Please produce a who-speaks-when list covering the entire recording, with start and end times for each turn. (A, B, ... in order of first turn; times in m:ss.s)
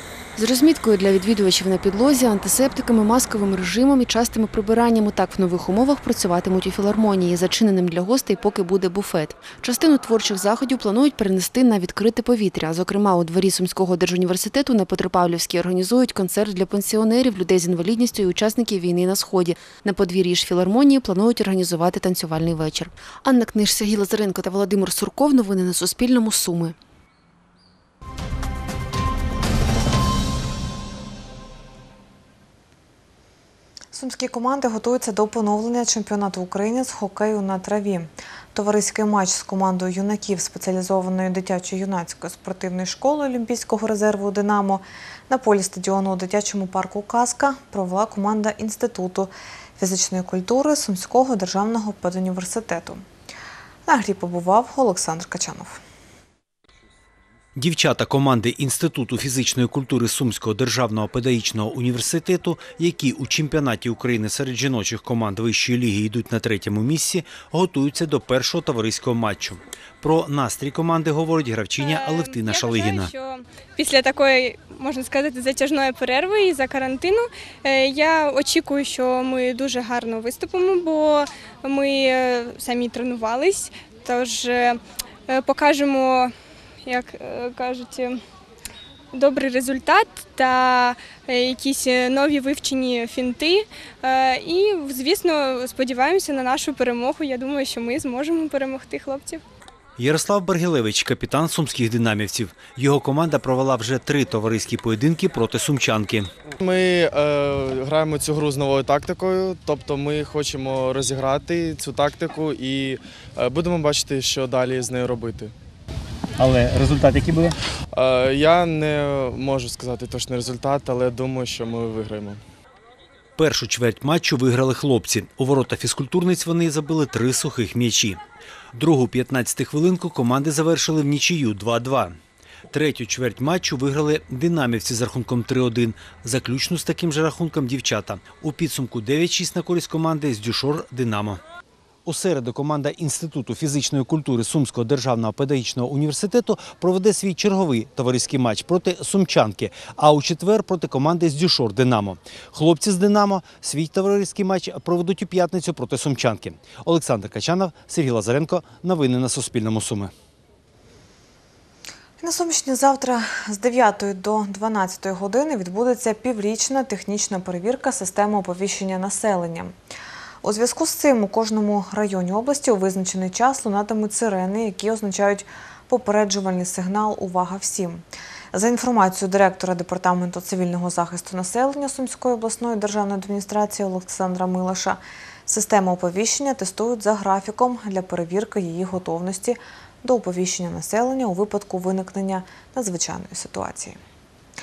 0:00.4-0:26.7 A
0:33.9-0:53.0 B
0:53.8-0:55.8 B
0:57.5-1:13.1 C
1:11.8-1:26.3 D
1:26.8-1:28.2 D
1:29.1-1:39.4 D
1:40.0-1:46.3 C
1:46.6-1:55.5 E
1:56.4-1:57.5 C
1:57.9-2:02.4 E
2:03.4-2:08.2 C
2:08.7-2:12.2 C
2:12.7-2:21.4 C
2:22.0-2:40.1 C
2:42.2-2:49.7 B
2:50.4-3:14.0 B